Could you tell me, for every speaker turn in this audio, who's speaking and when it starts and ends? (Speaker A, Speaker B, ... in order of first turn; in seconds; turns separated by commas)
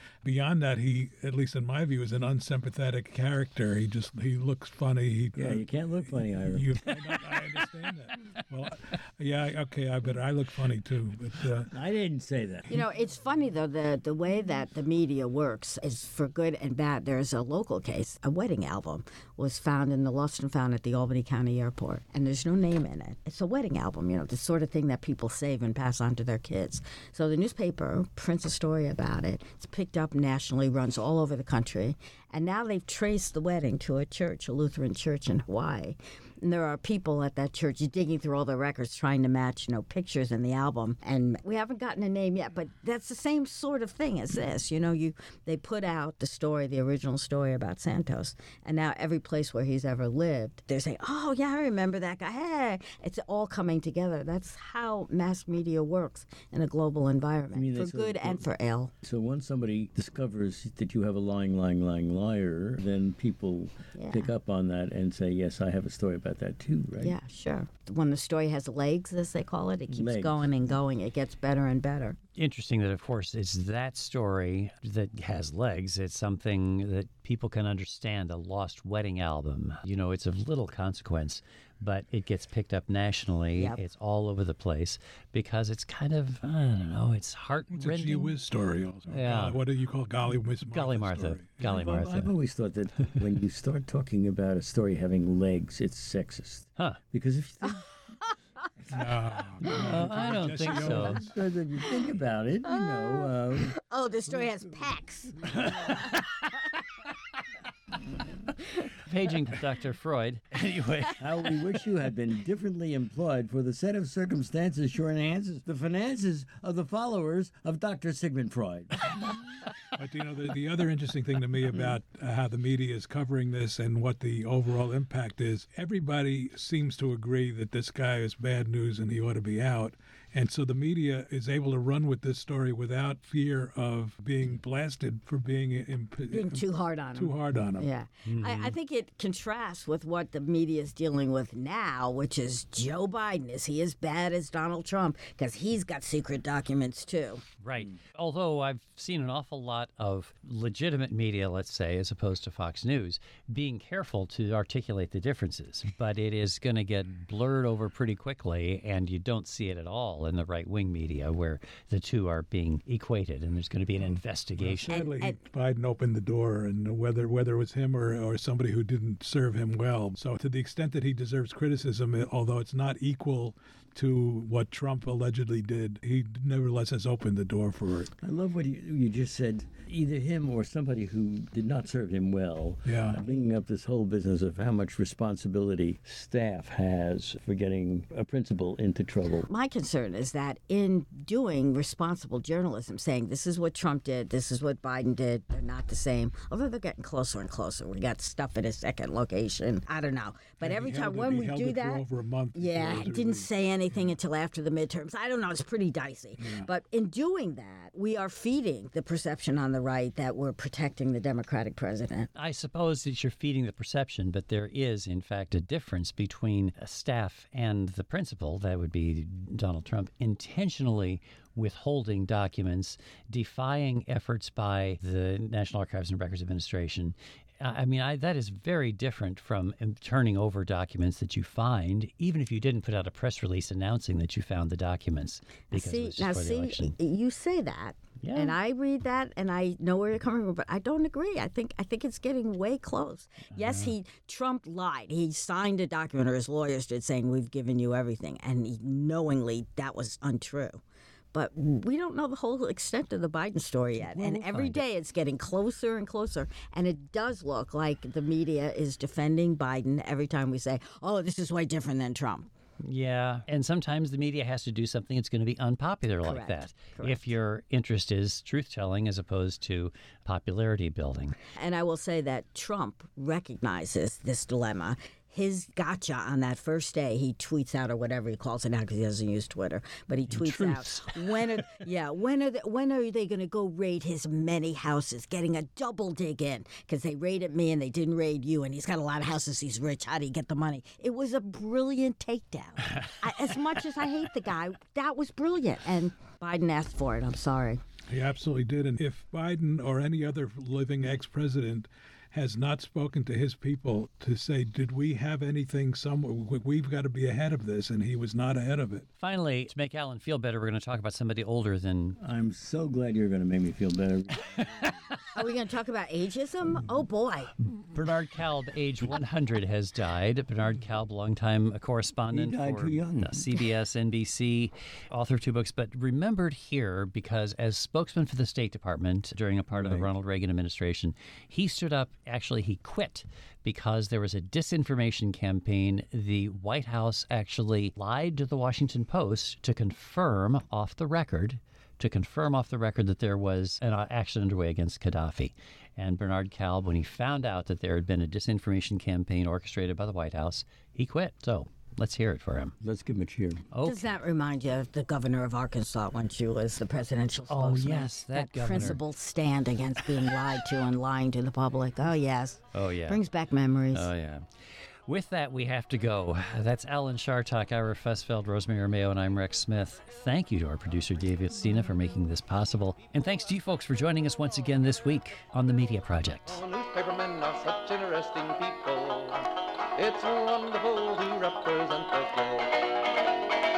Speaker A: 0.2-11.7, Speaker B: 5.4-6.7, Speaker C: 6.8-7.6, Speaker B: 11.7-12.8, Speaker D: 12.7-58.9, Speaker B: 57.5-58.5, Speaker B: 59.0-67.2, Speaker D: 64.0-64.3, Speaker D: 67.0-72.2, Speaker B: 69.9-70.4, Speaker C: 72.4-88.3, Speaker D: 83.5-83.8, Speaker A: 87.7-91.6, Speaker C: 89.1-89.6, Speaker C: 90.7-92.3, Speaker B: 91.6-97.9, Speaker A: 98.9-101.4, Speaker B: 99.8-100.1, Speaker C: 99.8-101.2, Speaker B: 100.6-103.8, Speaker D: 101.8-106.3, Speaker C: 105.7-106.0, Speaker C: 109.0-111.2, Speaker B: 111.2-119.4, Speaker A: 120.0-137.9, Speaker D: 136.3-147.4, Speaker C: 138.2-138.8, Speaker C: 147.6-165.1, Speaker A: 164.6-178.1, Speaker D: 164.9-165.4, Speaker B: 178.2-189.5, Speaker A: 182.8-183.2, Speaker D: 189.4-202.0, Speaker A: 200.6-204.1, Speaker D: 202.6-212.3, Speaker A: 206.4-206.7, Speaker C: 212.3-236.9, Speaker D: 235.7-250.8, Speaker C: 238.2-238.6, Speaker C: 243.6-243.9, Speaker D: 251.3-262.5, Speaker C: 254.0-254.8, Speaker C: 262.8-271.4, Speaker D: 266.2-267.2, Speaker D: 271.6-297.8, Speaker C: 280.3-281.4, Speaker A: 298.1-309.1, Speaker C: 309.2-312.2, Speaker B: 312.2-314.6, Speaker D: 315.3-317.5, Speaker C: 317.8-352.8, Speaker B: 322.3-323.6, Speaker B: 329.8-330.1, Speaker B: 352.8-353.7, Speaker C: 353.7-354.0, Speaker D: 353.8-364.1, Speaker C: 357.5-359.0, Speaker C: 362.7-363.2, Speaker C: 363.9-364.5, Speaker C: 365.1-376.6, Speaker E: 376.5-382.9